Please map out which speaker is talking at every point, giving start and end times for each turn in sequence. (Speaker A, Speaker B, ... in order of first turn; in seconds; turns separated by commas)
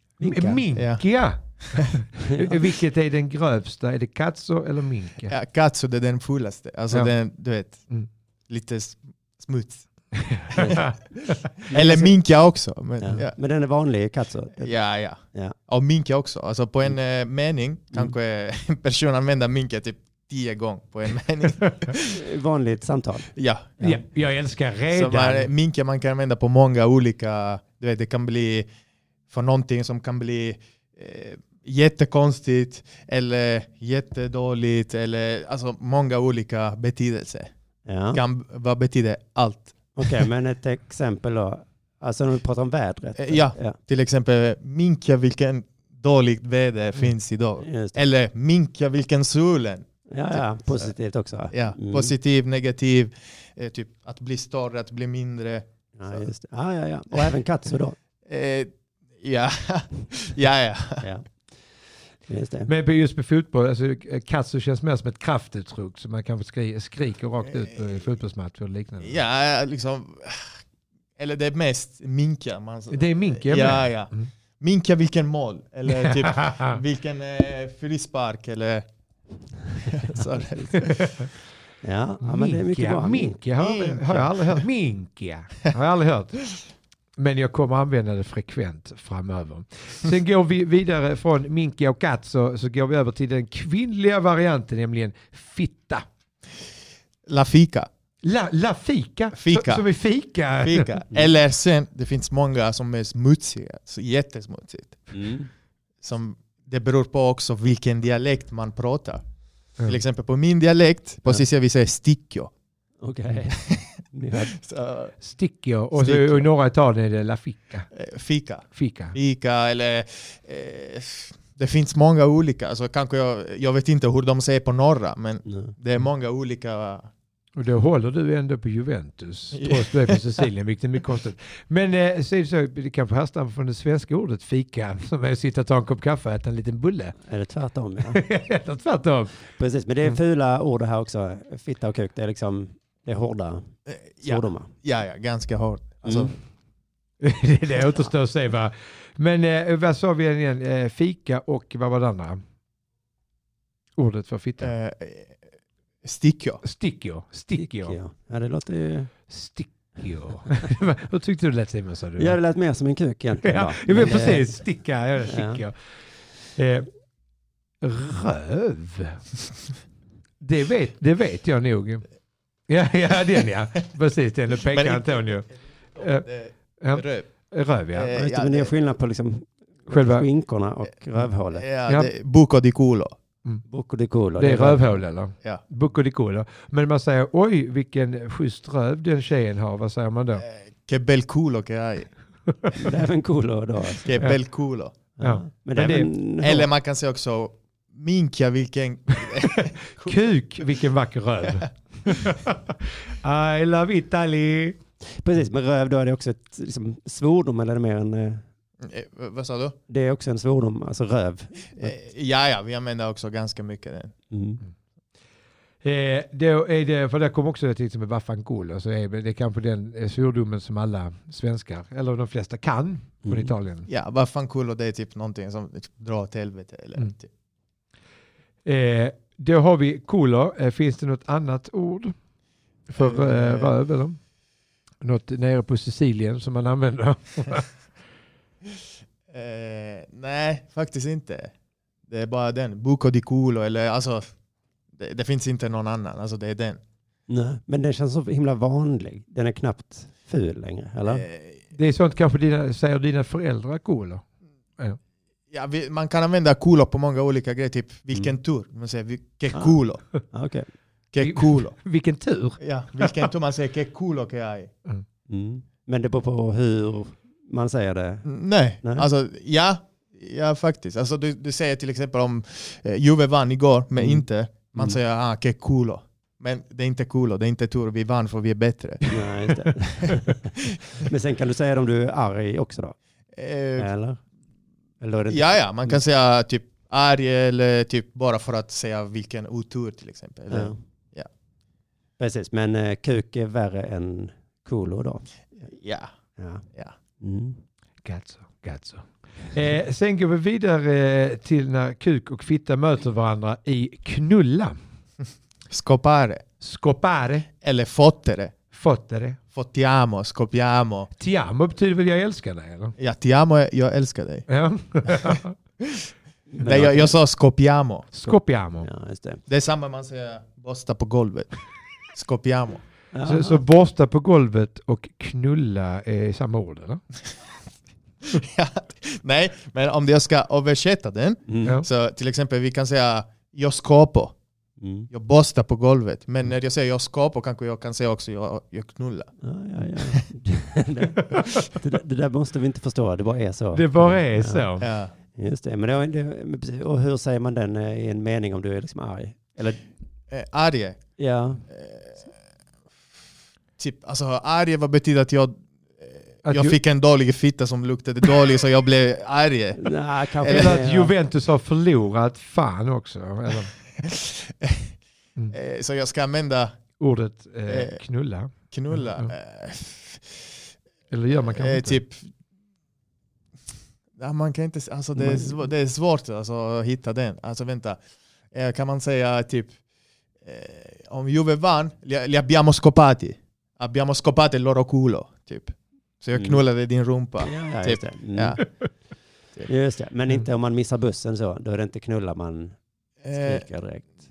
Speaker A: 0.2-0.6, Speaker B: 0.2-5.3, Speaker C: 0.7-1.0, Speaker A: 2.2-2.5, Speaker C: 5.3-7.8, Speaker C: 8.5-9.8, Speaker B: 10.2-11.4, Speaker C: 10.5-10.8, Speaker A: 11.7-12.2, Speaker C: 11.7-13.4, Speaker A: 13.0-14.8, Speaker C: 14.6-22.1, Speaker A: 22.1-23.3, Speaker C: 23.4-23.9, Speaker B: 23.8-25.5, Speaker C: 24.9-28.7, Speaker C: 29.3-37.5, Speaker A: 37.9-38.2, Speaker C: 38.1-40.1, Speaker A: 40.0-43.8, Speaker C: 43.2-50.9, Speaker A: 47.6-48.0, Speaker A: 50.1-52.1, Speaker C: 51.5-56.2, Speaker A: 56.0-58.0, Speaker C: 58.3-61.0, Speaker A: 61.0-61.3, Speaker A: 62.3-62.7, Speaker B: 62.7-69.2, Speaker C: 69.0-70.6, Speaker C: 71.2-78.9, Speaker B: 72.9-74.2, Speaker B: 75.9-76.8, Speaker C: 79.8-81.1, Speaker B: 80.8-81.3, Speaker A: 81.8-83.4, Speaker B: 82.2-86.5, Speaker C: 83.6-84.6, Speaker B: 87.2-96.0, Speaker C: 97.3-97.9, Speaker B: 98.2-101.0, Speaker C: 99.3-99.8, Speaker C: 100.6-105.1, Speaker A: 105.1-105.5, Speaker C: 106.0-109.2, Speaker C: 109.8-112.5, Speaker A: 113.0-114.5, Speaker C: 113.5-115.1, Speaker B: 115.2-117.9, Speaker C: 116.0-116.5, Speaker C: 117.9-127.1, Speaker B: 118.8-119.2, Speaker A: 125.5-125.7, Speaker B: 127.6-137.2, Speaker C: 129.5-130.2, Speaker A: 137.3-138.2, Speaker B: 138.1-139.4, Speaker A: 139.5-143.7, Speaker C: 143.9-146.3, Speaker A: 144.2-144.7, Speaker A: 146.0-146.3, Speaker B: 147.2-152.4, Speaker B: 154.0-154.7, Speaker C: 154.6-155.3, Speaker C: 156.0-156.6, Speaker B: 156.6-158.0, Speaker A: 157.6-159.1, Speaker B: 159.3-162.4, Speaker A: 162.2-164.6, Speaker B: 163.4-165.8, Speaker A: 165.3-165.6, Speaker B: 166.6-166.9, Speaker B: 167.8-169.2, Speaker B: 170.4-172.1, Speaker B: 172.7-175.5, Speaker C: 174.7-175.3, Speaker C: 176.0-177.3, Speaker B: 176.0-176.3, Speaker B: 176.8-178.1, Speaker C: 177.9-178.7, Speaker A: 178.1-181.7, Speaker B: 179.9-180.3, Speaker C: 181.5-183.2, Speaker A: 183.7-185.0, Speaker B: 184.4-190.5, Speaker C: 190.8-192.1, Speaker A: 192.8-194.1, Speaker C: 194.0-194.9, Speaker A: 195.2-196.7, Speaker B: 195.2-196.1, Speaker C: 196.4-200.2, Speaker B: 200.0-204.8, Speaker A: 205.2-208.4, Speaker C: 208.8-209.8, Speaker A: 209.9-211.9, Speaker C: 211.8-214.1, Speaker A: 214.3-214.6, Speaker B: 215.8-223.9, Speaker A: 223.2-223.5, Speaker C: 223.9-227.3, Speaker B: 228.7-232.2, Speaker B: 232.9-234.2, Speaker C: 233.0-233.8, Speaker B: 235.0-237.7, Speaker C: 239.3-241.5, Speaker C: 242.1-244.3, Speaker C: 245.0-246.8, Speaker A: 247.3-251.3, Speaker C: 251.0-251.6, Speaker B: 251.7-254.2, Speaker C: 255.5-260.0, Speaker A: 260.3-260.7, Speaker C: 261.1-261.8, Speaker B: 261.2-263.2, Speaker C: 262.6-264.7, Speaker A: 265.3-268.3, Speaker C: 268.2-279.1, Speaker A: 274.0-274.2, Speaker A: 279.1-283.0, Speaker C: 283.4-283.9, Speaker A: 283.8-284.2, Speaker A: 285.0-286.0, Speaker C: 285.3-291.3, Speaker A: 290.5-290.8, Speaker A: 292.2-295.3, Speaker C: 295.7-296.1, Speaker A: 296.4-296.6, Speaker A: 297.2-297.6, Speaker B: 298.0-304.8, Speaker C: 305.7-306.4, Speaker B: 306.6-307.5, Speaker C: 307.6-308.5, Speaker B: 308.7-309.4, Speaker C: 309.5-311.1, Speaker B: 311.2-312.9, Speaker C: 313.0-314.5, Speaker B: 314.5-315.5, Speaker C: 315.0-316.1, Speaker A: 316.5-317.1, Speaker C: 316.6-318.1, Speaker B: 318.1-318.9, Speaker A: 318.3-319.4, Speaker C: 319.5-321.5, Speaker C: 322.1-322.8, Speaker A: 323.1-323.6, Speaker B: 323.2-327.0, Speaker C: 328.2-334.4, Speaker A: 331.5-331.8, Speaker A: 334.8-335.1, Speaker C: 335.1-339.3, Speaker A: 339.4-344.6, Speaker B: 343.7-344.9, Speaker C: 344.8-345.1, Speaker A: 345.4-349.8, Speaker C: 350.3-351.0, Speaker A: 351.2-351.6, Speaker C: 351.7-352.2, Speaker C: 353.8-360.8, Speaker B: 356.4-356.8, Speaker A: 359.8-361.1, Speaker B: 360.4-363.8, Speaker C: 364.0-364.9, Speaker C: 365.5-366.8, Speaker B: 367.0-369.3, Speaker C: 367.7-368.0, Speaker C: 368.7-370.4, Speaker B: 371.1-372.0, Speaker C: 371.4-372.3, Speaker C: 374.2-378.0, Speaker C: 378.5-379.8, Speaker C: 380.4-388.6, Speaker A: 387.4-388.6, Speaker A: 389.6-392.8, Speaker C: 393.2-393.6, Speaker A: 393.3-394.1